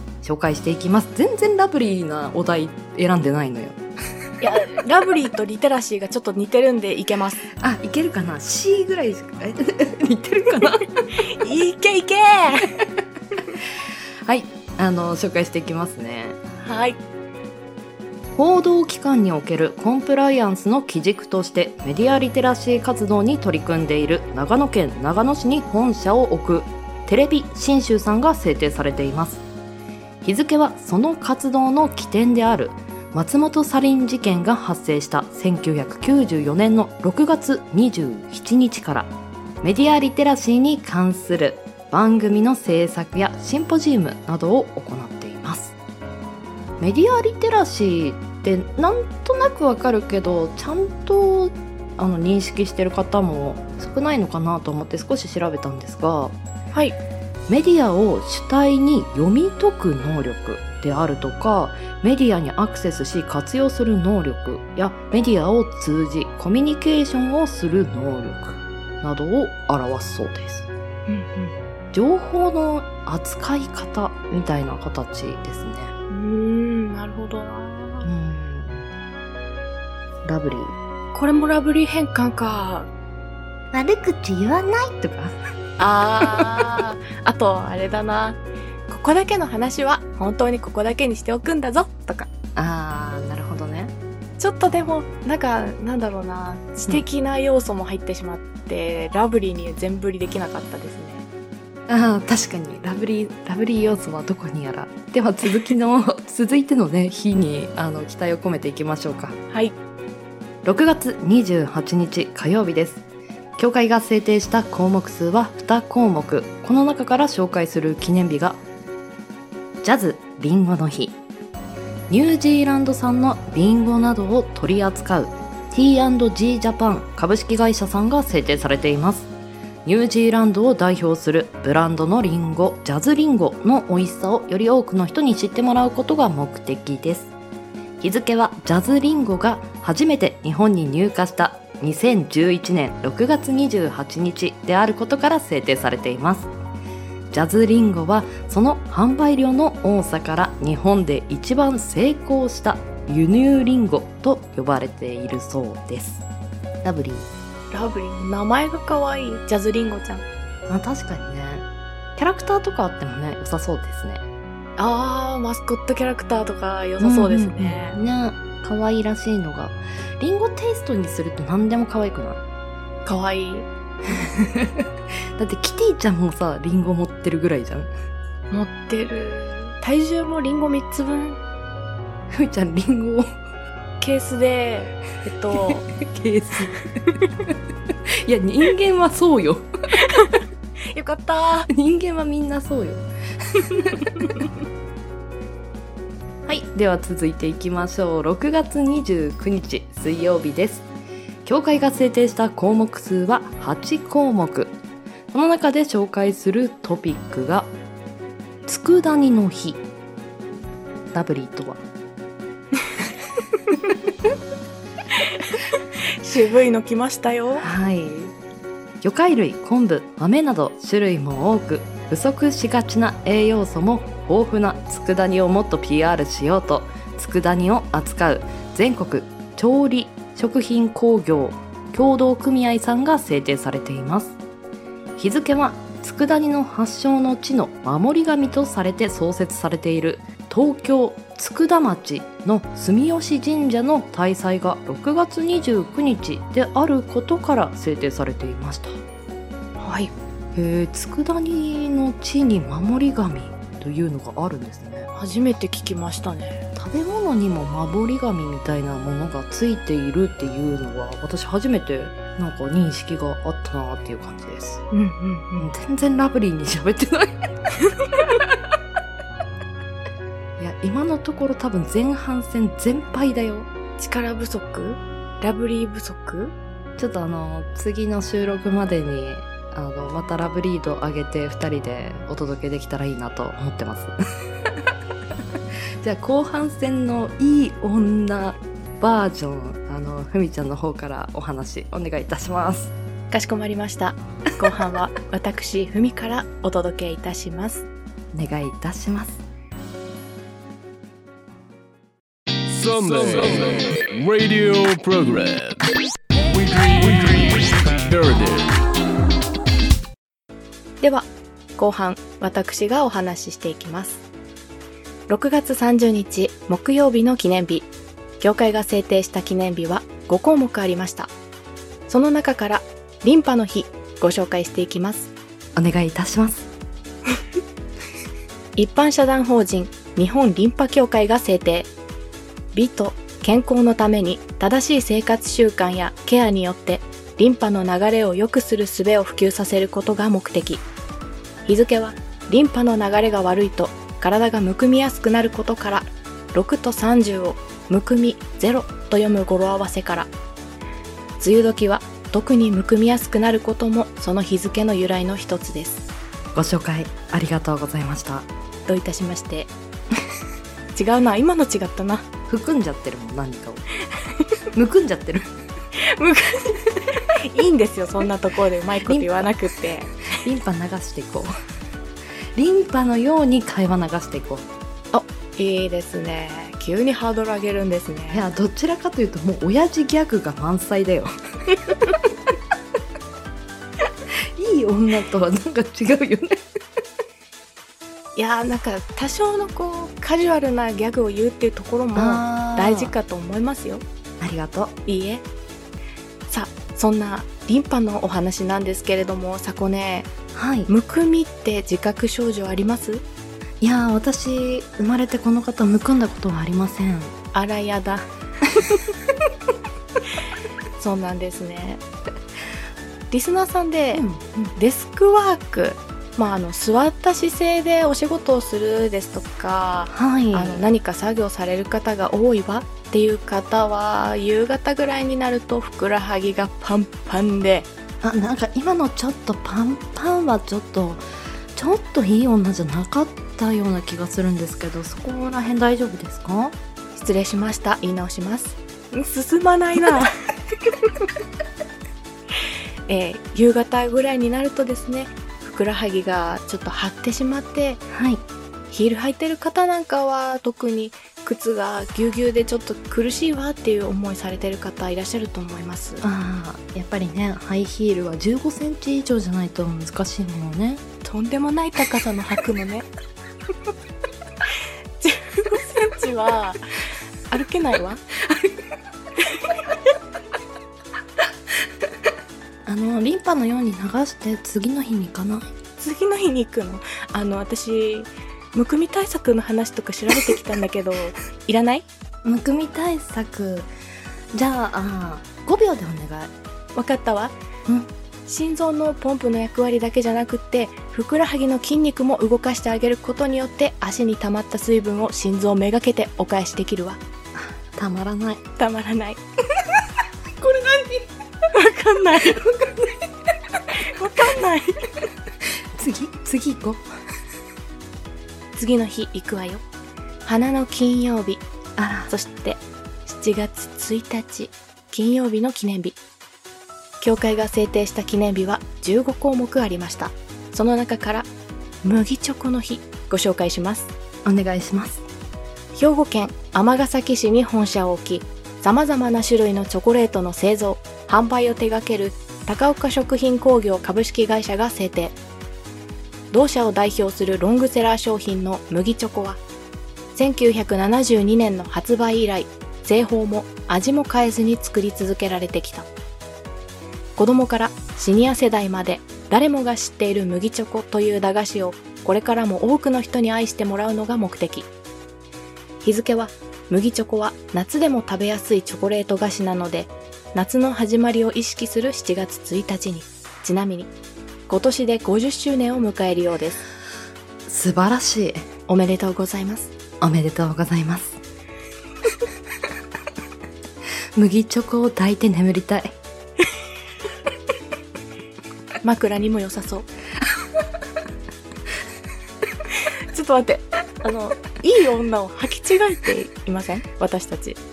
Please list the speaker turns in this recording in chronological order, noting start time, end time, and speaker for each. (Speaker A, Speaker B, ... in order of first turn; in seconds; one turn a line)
Speaker A: 0.2-3.8
Speaker B: 4.4-7.4
Speaker A: 7.6-10.9
Speaker B: 11.4-12.7
Speaker A: 14.3-16.4
Speaker B: 16.6-17.0
Speaker A: 18.4-29.4
Speaker A: 30.2-39.1
Speaker A: 39.6-45.7
Speaker A: 46.8-56.4
Speaker A: 57.5-70.7
Speaker B: 71.1-71.5
Speaker A: 71.9-75.9
Speaker B: 76.1-78.1
Speaker A: 78.0-78.9
Speaker A: 80.2-80.7
Speaker B: 81.1-82.9
Speaker A: 83.7-85.3
Speaker B: 85.8-92.3
Speaker A: 92.6-93.9
Speaker B: 94.4-101.3
Speaker A: 101.9-109.3
Speaker A: 110.7-113.0
Speaker A: 113.6-118.6
Speaker A: 119.8-121.2
Speaker A: 122.1-129.3
Speaker A: 129.9-137.3
Speaker A: 138.0-146.5
Speaker A: 147.3-156.2
Speaker A: 156.8-157.3
Speaker B: 157.7-160.3
Speaker A: 160.7-161.7
Speaker A: 162.2-164.2
Speaker B: 164.8-168.0
Speaker A: 167.0-172.4
Speaker B: 173.1-173.7
Speaker A: 175.4-177.9
Speaker B: 178.5-181.4
Speaker A: 182.3-183.2
Speaker B: 184.0-185.8
Speaker A: 185.9-186.7
Speaker A: 188.3-189.7
Speaker B: 190.0-190.4
Speaker B: 190.9-191.7
Speaker A: 191.7-193.1
Speaker A: 196.5-200.8
Speaker A: 201.5-204.7
Speaker A: 205.3-207.7
Speaker A: 208.7-209.8
Speaker A: 211.1-211.8
Speaker B: 216.2-217.7
Speaker A: 217.6-218.3
Speaker A: 219.0-234.4
Speaker A: 235.2-249.0
Speaker B: 249.8-250.1
Speaker A: 250.6-255.1
Speaker B: 255.1-256.6
Speaker A: 256.8-264.8
Speaker B: 264.9-265.7
Speaker A: 265.6-267.3
Speaker A: 270.6-273.7
Speaker B: 274.0-276.6
Speaker A: 277.0-284.1
Speaker A: 286.0-292.9
Speaker B: 293.3-297.9
Speaker A: 298.3-299.4
Speaker C: 302.7-305.9
Speaker C: 306.5-308.7
Speaker B: 311.0-314.2
Speaker B: 315.3-317.9
Speaker B: 318.4-321.3
Speaker B: 322.1-325.3
Speaker A: 325.8-326.6
Speaker B: 328.8-331.9
Speaker B: 332.7-340.8
Speaker B: 341.6-350.3
Speaker B: 351.4-356.1
Speaker A: 356.6-358.4
Speaker B: 358.9-359.7
Speaker B: 360.9-362.3
Speaker A: 362.5-363.8
Speaker A: 364.8-365.5
Speaker B: 366.0-366.8
Speaker B: 367.3-370.1
Speaker A: 369.1-369.4
Speaker A: 370.4-371.5
Speaker A: 372.6-374.6
Speaker B: 375.1-378.4
Speaker A: 378.3-381.3
Speaker A: 384.6-386.5
Speaker B: 388.4-394.1
Speaker A: 392.1-393.1
Speaker A: 394.4-394.9
Speaker B: 395.1-395.4
Speaker B: 396.5-400.4
Speaker A: 400.5-400.9
Speaker B: 400.9-403.2
Speaker A: 403.8-407.3
Speaker B: 407.5-408.3
Speaker B: 411.0-412.0
Speaker B: 413.3-414.2
Speaker A: 414.1-414.7
Speaker B: 414.8-427.9
Speaker A: 420.1-420.8
Speaker A: 428.2-431.2
Speaker A: 431.8-436.7
Speaker B: 437.1-440.4
Speaker B: 443.1-448.0
Speaker A: 448.1-448.4
Speaker B: 448.9-456.2
Speaker A: 456.2-461.0
Speaker B: 461.2-463.1
Speaker B: 465.2-468.2
Speaker A: 472.9-475.7
Speaker B: 476.0-482.1
Speaker A: 482.4-483.9
Speaker A: 484.5-486.5
Speaker B: 486.9-487.6
Speaker B: 488.5-497.2
Speaker A: 498.0-498.6
Speaker B: 498.8-499.4
Speaker B: 501.7-502.6
Speaker B: 504.1-505.1
Speaker A: 506.0-507.1
Speaker B: 508.8-509.8
Speaker B: 510.4-511.6
Speaker A: 512.0-512.3
Speaker B: 512.3-516.2
Speaker B: 517.2-521.5
Speaker B: 522.0-524.1
Speaker A: 524.5-525.2
Speaker B: 525.9-535.4
Speaker B: 536.5-539.6
Speaker B: 540.3-546.1
Speaker B: 547.4-554.9
Speaker B: 556.0-564.1
Speaker B: 564.7-566.8
Speaker A: 567.7-568.6
Speaker B: 568.9-569.9
Speaker A: 570.2-571.4
Speaker A: 574.4-576.1
Speaker B: 579.0-580.1
Speaker B: 583.3-587.8